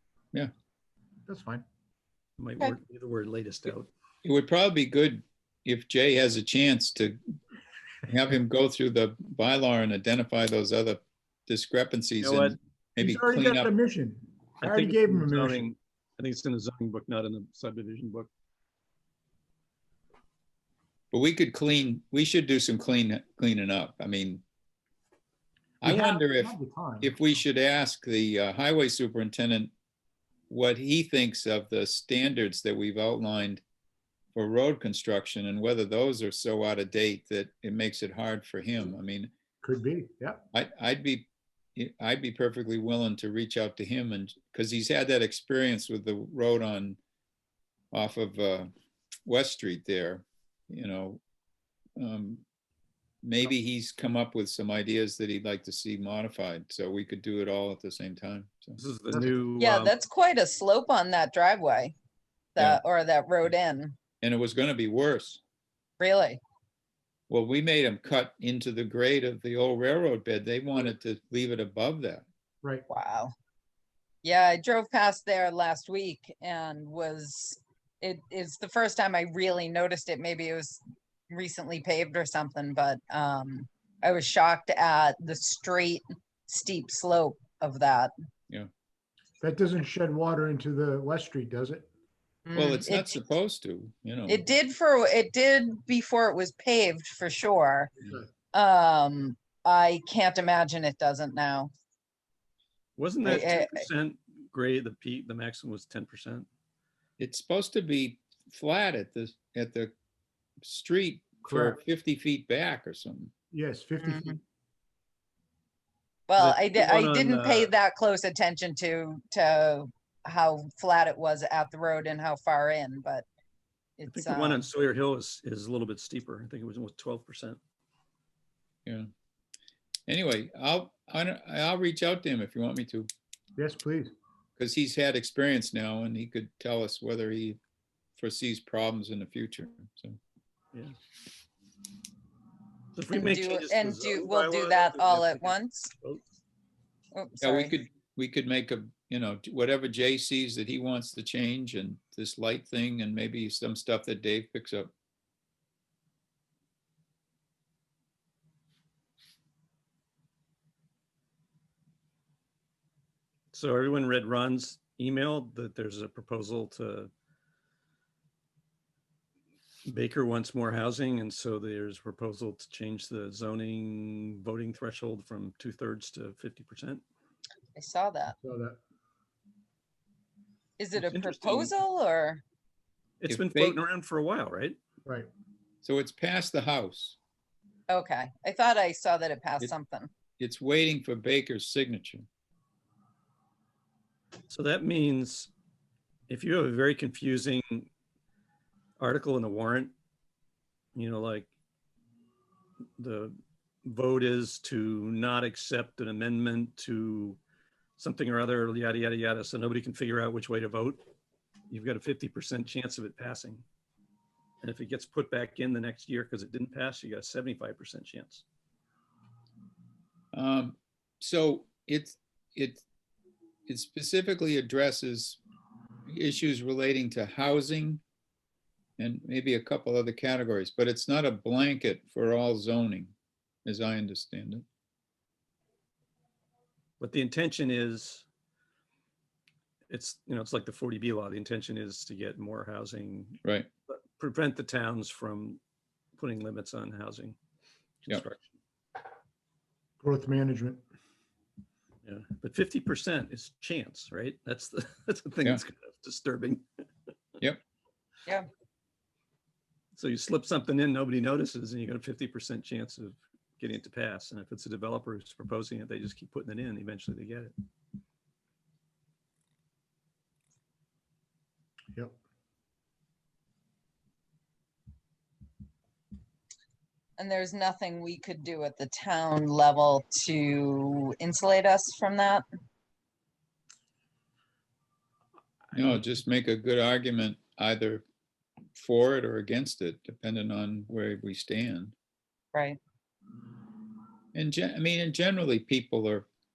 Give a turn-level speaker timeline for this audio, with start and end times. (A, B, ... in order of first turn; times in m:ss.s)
0:01.3-0:01.6 A
0:02.4-0:03.9 B
0:04.2-0:07.2 C
0:08.0-0:13.7 C
0:12.2-0:12.5 B
0:13.0-0:15.7 A
0:14.6-0:18.3 B
0:21.1-0:24.4 C
0:25.8-0:27.2 A
0:25.8-0:29.7 C
0:30.5-0:33.6 C
0:34.4-0:39.3 C
0:39.6-0:40.4 A
0:40.5-0:47.0 C
0:47.9-0:48.7 C
0:49.3-0:51.2 C
0:52.0-0:52.4 C
0:53.2-0:58.8 C
0:58.8-1:00.0 B
0:59.1-0:59.4 A
0:59.6-1:02.0 D
1:02.6-1:04.0 D
1:04.2-1:05.4 C
1:06.0-1:06.4 D
1:07.3-1:12.2 C
1:12.9-1:13.3 D
1:14.2-1:28.1 D
1:29.4-1:31.9 A
1:32.5-1:33.2 D
1:32.6-1:34.4 C
1:34.3-1:37.9 D
1:38.5-1:41.7 D
1:43.0-1:46.5 B
1:43.2-1:43.8 D
1:47.2-1:49.9 C
1:50.6-1:53.3 C
1:51.4-1:51.8 A
1:53.5-1:54.4 A
1:54.0-1:54.4 D
1:56.3-2:03.3 D
1:56.4-1:57.7 B
2:04.0-2:04.7 D
2:04.1-2:07.6 B
2:10.1-2:13.1 C
2:13.6-2:14.1 A
2:14.6-2:17.6 C
2:18.2-2:20.2 C
2:22.9-2:26.2 B
2:23.1-2:25.9 D
2:27.1-2:27.8 D
2:27.4-2:34.9 C
2:43.5-2:47.1 B
2:49.9-2:57.0 B
2:57.8-2:58.4 D
2:58.4-2:58.8 A
3:00.8-3:02.4 D
3:01.0-3:01.7 B
3:03.2-3:04.8 B
3:03.3-3:03.8 C
3:05.8-3:07.2 C
3:07.9-3:10.1 D
3:10.4-3:12.3 C
3:14.5-3:15.5 B
3:16.3-3:17.9 B
3:19.0-3:19.9 B
3:21.0-3:21.5 B
3:23.0-3:27.4 B
3:28.0-3:31.0 B
3:31.7-3:33.6 B
3:34.6-3:38.4 B
3:40.3-3:42.8 C
3:43.7-3:45.4 C
3:46.1-3:48.0 C
3:49.0-3:53.1 C
3:53.6-3:54.6 C
3:57.0-3:58.2 B
3:59.9-4:05.6 B
4:06.2-4:07.4 B
4:08.0-4:08.5 B
4:10.0-4:10.8 A
4:12.0-4:16.6 B
4:20.0-4:27.5 B
4:37.2-4:42.4 D
4:45.7-4:48.0 C
4:48.8-4:51.9 C
4:54.3-4:56.3 C